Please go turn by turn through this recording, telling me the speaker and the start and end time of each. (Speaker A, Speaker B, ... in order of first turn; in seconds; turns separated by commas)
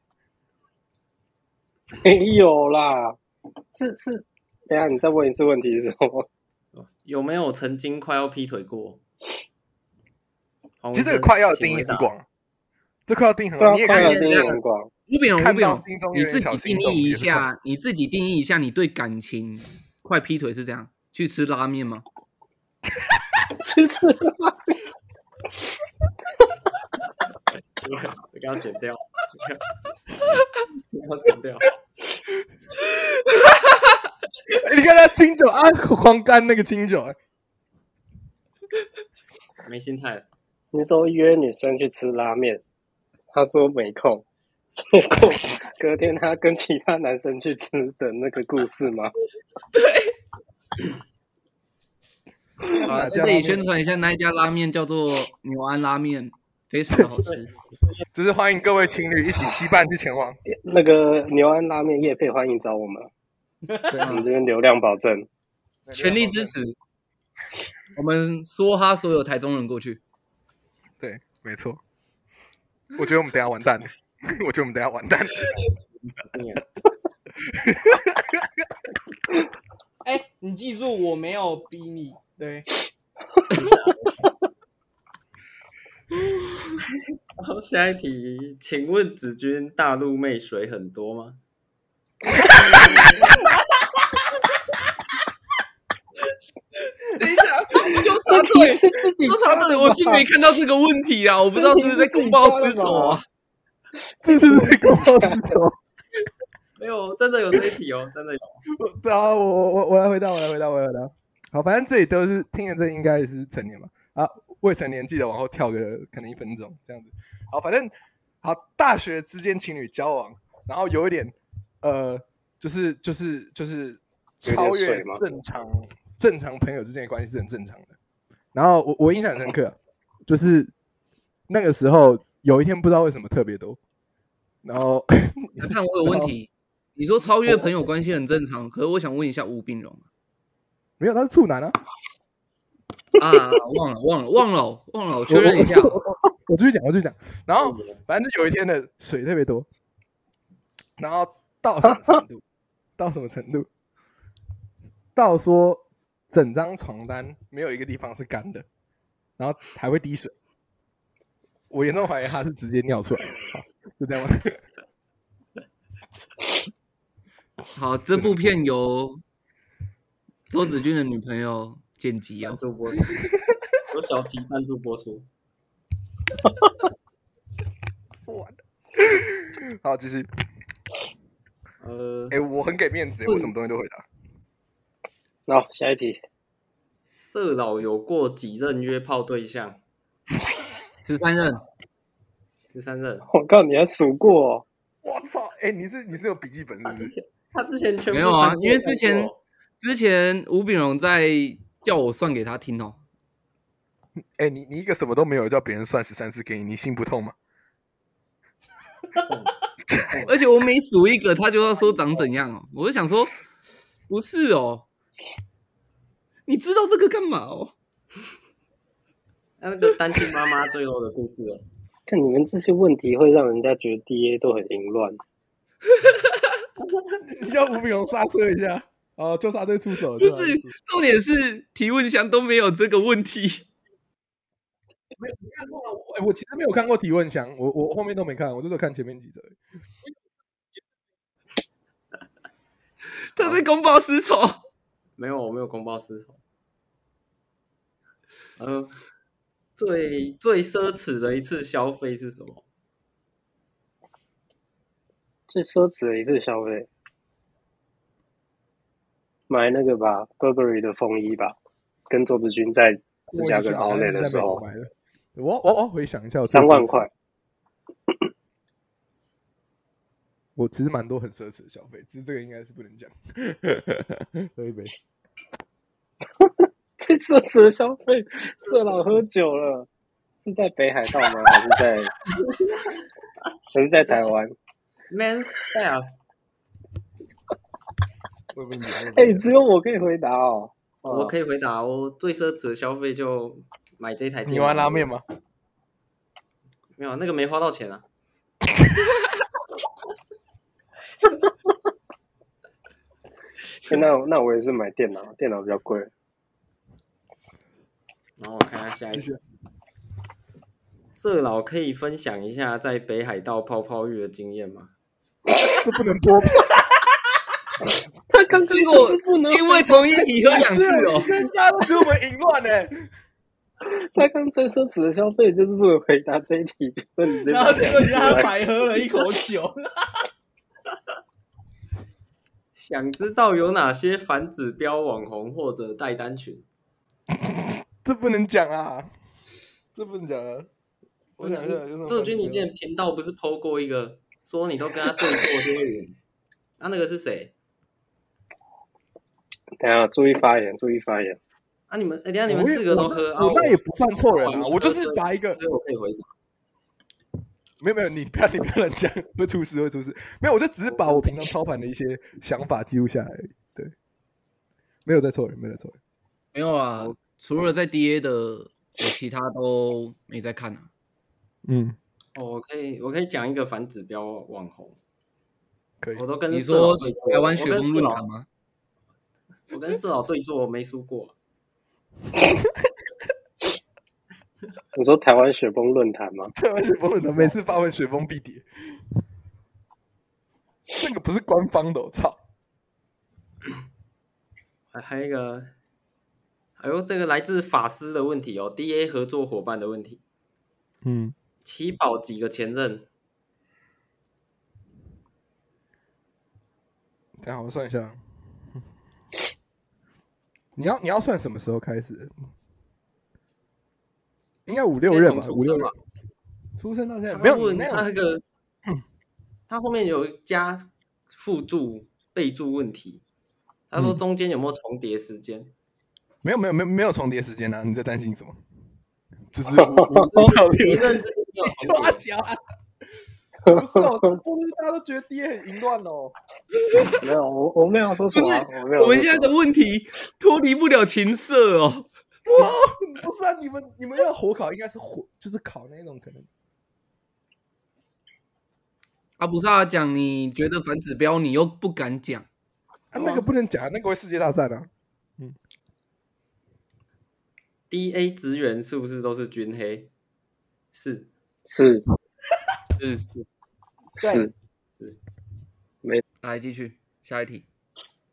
Speaker A: 2.0-3.2, Speaker A: 3.7-6.3, Speaker B: 6.8-9.0, Speaker B: 10.8-12.1, Speaker C: 10.9-12.2, Speaker C: 13.1-14.3, Speaker A: 13.6-14.9, Speaker D: 13.9-22.1, Speaker C: 15.4-17.5, Speaker A: 23.6-24.8, Speaker B: 27.8-29.7, Speaker B: 30.9-31.7, Speaker C: 34.5-37.2, Speaker B: 39.6-40.3, Speaker A: 40.7-42.6, Speaker A: 43.3-44.2, Speaker A: 44.8-49.1, Speaker D: 49.7-50.1, Speaker C: 52.8-53.6, Speaker D: 52.8-57.5, Speaker C: 56.9-57.3, Speaker C: 58.1-60.4, Speaker A: 60.5-63.1, Speaker D: 63.9-64.3, Speaker A: 64.0-65.3, Speaker C: 65.9-66.5, Speaker D: 65.9-66.8, Speaker D: 68.0-70.0, Speaker C: 71.0-71.8, Speaker C: 73.0-75.5, Speaker B: 76.0-76.7, Speaker C: 77.5-78.3, Speaker E: 80.0-82.7, Speaker B: 83.6-84.0, Speaker B: 87.4-91.4, Speaker D: 97.0-103.2, Speaker A: 97.8-100.3, Speaker A: 101.5-103.2, Speaker C: 104.2-105.8, Speaker A: 104.2-105.6, Speaker B: 106.8-108.6, Speaker C: 108.7-127.9, Speaker A: 124.4-125.2, Speaker C: 128.5-130.7, Speaker C: 131.5-133.8, Speaker C: 134.6-136.3, Speaker D: 135.6-140.1, Speaker C: 141.0-141.8, Speaker D: 143.2-146.0, Speaker C: 145.3-149.7, Speaker B: 147.6-148.0, Speaker C: 151.0-152.4, Speaker C: 153.0-153.7, Speaker C: 155.2-158.7, Speaker C: 159.4-160.3, Speaker C: 161.7-164.6, Speaker D: 167.7-169.2, Speaker D: 170.5-172.6, Speaker B: 172.4-173.2, Speaker B: 173.9-175.3, Speaker C: 178.3-180.3, Speaker B: 181.8-182.4, Speaker C: 182.3-184.1, Speaker B: 183.2-183.5, Speaker A: 185.5-186.2, Speaker B: 187.2-189.8, Speaker D: 191.1-191.6, Speaker B: 192.7-193.3, Speaker A: 193.3-194.7, Speaker C: 195.0-197.2, Speaker B: 196.8-199.4, Speaker D: 198.1-203.0, Speaker C: 204.2-207.3, Speaker B: 209.2-210.3, Speaker C: 209.9-210.1, Speaker D: 210.3-213.3, Speaker D: 214.1-214.9, Speaker D: 216.5-217.7, Speaker B: 219.6-221.6, Speaker A: 222.1-225.2, Speaker D: 225.9-226.5, Speaker C: 227.2-230.7, Speaker D: 230.2-233.7, Speaker C: 235.2-239.6, Speaker D: 243.3-244.6, Speaker B: 245.2-246.4, Speaker B: 248.6-248.9, Speaker B: 249.8-252.6, Speaker A: 255.5-256.9, Speaker A: 259.5-261.6, Speaker A: 262.1-264.6, Speaker C: 263.3-267.1, Speaker A: 266.5-267.1, Speaker C: 270.6-274.9, Speaker A: 276.4-279.9, Speaker A: 280.4-282.1, Speaker A: 283.7-284.5, Speaker B: 285.1-286.1, Speaker C: 288.5-289.5, Speaker A: 289.1-291.3, Speaker B: 291.1-295.1, Speaker C: 294.5-295.2, Speaker B: 297.0-298.1, Speaker A: 303.9-306.1, Speaker B: 308.4-309.3, Speaker C: 309.1-309.4, Speaker B: 311.1-314.9, Speaker C: 315.8-316.7, Speaker A: 318.3-321.2, Speaker D: 318.7-321.3, Speaker C: 320.6-322.9, Speaker A: 323.8-329.0, Speaker E: 327.4-330.2, Speaker B: 332.8-336.6, Speaker C: 337.3-339.1, Speaker C: 339.9-340.7, Speaker C: 341.4-342.7, Speaker B: 341.4-346.2, Speaker B: 346.8-347.5, Speaker A: 349.8-351.4, Speaker B: 351.9-356.3, Speaker C: 352.5-355.6, Speaker C: 357.8-363.9, Speaker B: 360.9-361.3, Speaker C: 365.1-366.0, Speaker D: 366.5-370.9, Speaker C: 371.6-372.0, Speaker B: 372.4-375.0, Speaker C: 376.0-376.3, Speaker B: 376.1-378.2, Speaker D: 376.5-378.5, Speaker B: 379.7-381.4, Speaker C: 382.4-382.7, Speaker A: 384.9-386.5, Speaker C: 386.5-388.6, Speaker C: 391.0-392.4, Speaker B: 394.9-395.7, Speaker B: 396.8-400.2, Speaker C: 401.0-401.4, Speaker B: 401.6-403.1, Speaker C: 407.4-408.2, Speaker C: 410.8-412.3, Speaker C: 414.7-415.9, Speaker B: 415.0-416.0, Speaker C: 416.8-418.1, Speaker B: 417.3-418.4, Speaker B: 419.7-423.2, Speaker B: 423.9-425.7, Speaker C: 426.4-428.6, Speaker C: 429.5-432.6, Speaker A: 429.8-430.5, Speaker B: 430.4-432.2, Speaker C: 433.7-436.4, Speaker D: 436.9-437.2, Speaker A: 437.2-439.5, Speaker D: 438.3-442.1, Speaker C: 442.4-446.5, Speaker D: 449.4-452.5, Speaker C: 453.1-455.6, Speaker B: 453.2-453.4, Speaker B: 457.9-460.1, Speaker B: 460.9-461.3, Speaker A: 461.7-462.1, Speaker D: 463.0-463.4, Speaker A: 464.2-464.5, Speaker E: 464.2-464.5, Speaker D: 466.4-467.7